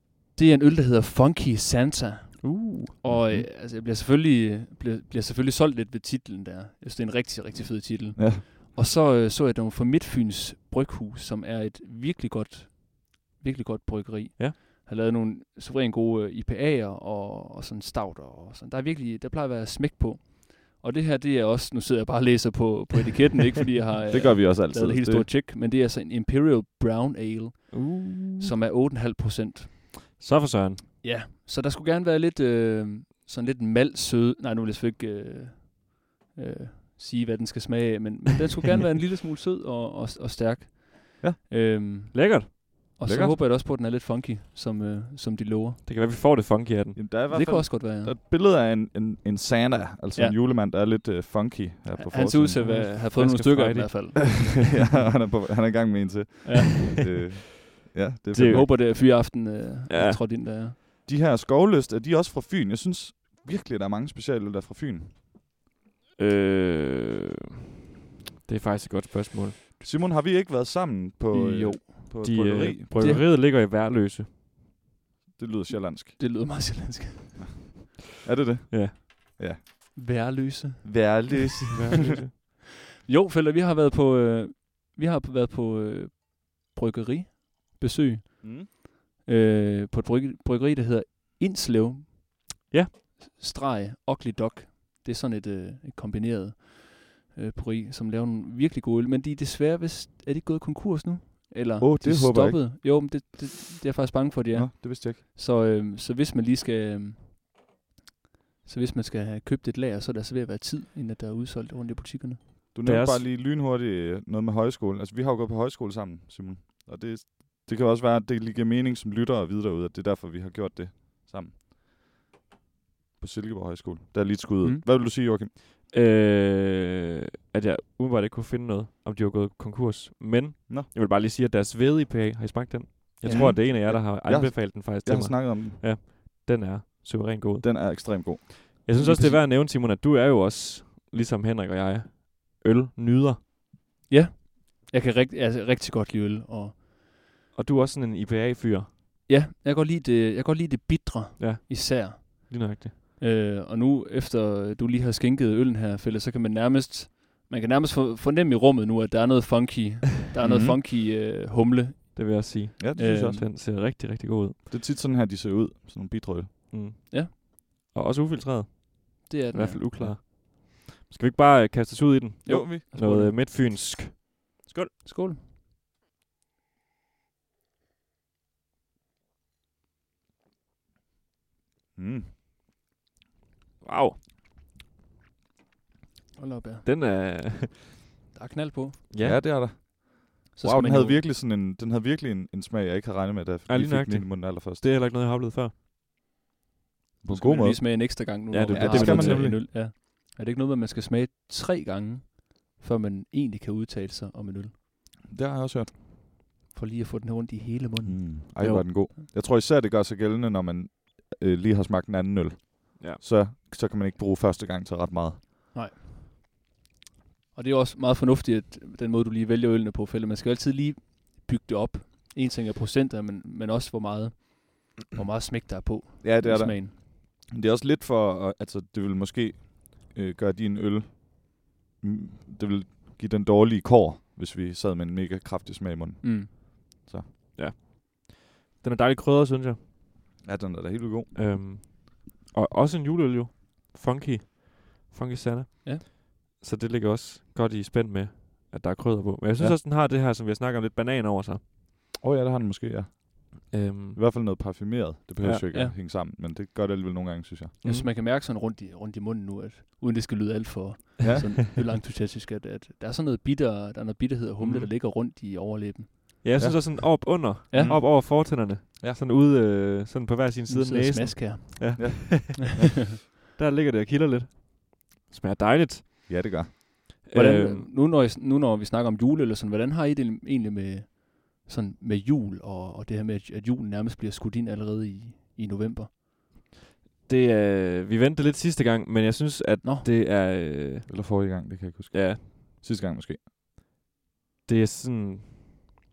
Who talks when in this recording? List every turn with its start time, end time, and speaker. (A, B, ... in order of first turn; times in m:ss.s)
0:00.3-0:30.0 A
0:02.4-0:02.9 B
0:03.1-0:03.5 C
0:08.2-0:08.4 C
0:24.1-0:25.3 C
0:27.7-0:28.5 B
0:30.2-0:30.9 B
0:31.0-0:45.8 A
0:42.1-0:42.6 B
0:43.0-0:43.4 C
0:45.8-0:47.0 B
0:46.9-0:52.8 C
0:47.3-0:48.2 A
0:51.9-0:55.0 A
0:52.6-0:54.4 B
0:54.5-0:58.7 C
0:56.4-0:56.8 A
0:58.3-0:58.8 B
0:58.4-1:00.8 A
0:59.9-1:00.2 B
1:01.0-1:05.1 C
1:06.2-1:07.4 B
1:08.4-1:09.6 B
1:09.8-1:13.2 C
1:11.3-1:12.4 A
1:12.2-1:14.3 B
1:13.0-1:13.3 A
1:15.4-1:16.2 C
1:16.2-1:17.6 A
1:17.4-1:19.6 C
1:19.9-1:22.5 A
1:20.8-1:22.1 C
1:21.7-1:22.3 B
1:23.0-1:32.5 A
1:28.4-1:28.7 C
1:32.7-1:33.0 B
1:33.2-1:47.4 A
1:41.8-1:42.6 C
1:44.5-1:45.2 C
1:48.6-1:52.4 A
1:52.7-2:01.6 C
1:52.8-1:53.2 B
2:03.2-2:05.5 C
2:05.9-2:23.4 B
2:13.2-2:13.6 A
2:13.2-2:15.8 C
2:17.6-2:18.8 C
2:19.0-2:19.4 A
2:24.1-2:26.8 A
2:27.5-2:28.9 B
2:29.3-2:42.4 A
2:31.4-2:32.9 B
2:40.4-2:40.8 C
2:42.1-2:44.6 B
2:42.8-2:43.4 C
2:43.0-2:43.4 A
2:44.7-2:46.6 C
2:46.7-2:54.9 B
2:49.2-2:49.8 A
2:52.4-2:53.4 A
2:52.5-2:52.8 C
2:55.0-2:55.4 A
3:02.0-3:02.3 C
3:03.8-3:04.2 B
3:06.4-3:06.9 A
3:06.8-3:08.0 B
3:08.3-3:09.0 A
3:09.1-3:09.4 B
3:09.2-3:14.8 C
3:10.5-3:11.2 A
3:13.7-3:15.7 B
3:17.2-3:19.6 C
3:17.3-3:24.7 A
3:18.5-3:19.6 B
3:25.3-3:25.9 C
3:26.7-3:29.2 A
3:28.0-3:35.4 C
3:35.7-3:36.1 A
3:37.5-3:47.0 A
3:46.2-3:57.3 C
3:56.2-3:56.5 A
3:57.5-3:59.8 B
4:00.4-4:01.3 C
4:01.3-4:11.6 B
4:12.2-4:17.8 C
4:13.7-4:14.2 B
4:17.8-4:18.1 B
4:17.8-4:26.4 A
4:24.6-4:24.9 B
4:26.4-4:32.8 B
4:26.6-4:29.2 C
4:27.7-4:28.0 A
4:30.7-4:32.3 A
4:32.0-4:32.9 C
4:33.5-4:36.5 B
4:36.3-4:36.7 C
4:37.2-4:37.9 B
4:37.3-4:46.2 A
4:47.2-4:52.4 B
4:49.8-4:50.1 A
4:51.1-4:53.4 C
4:54.6-4:55.6 B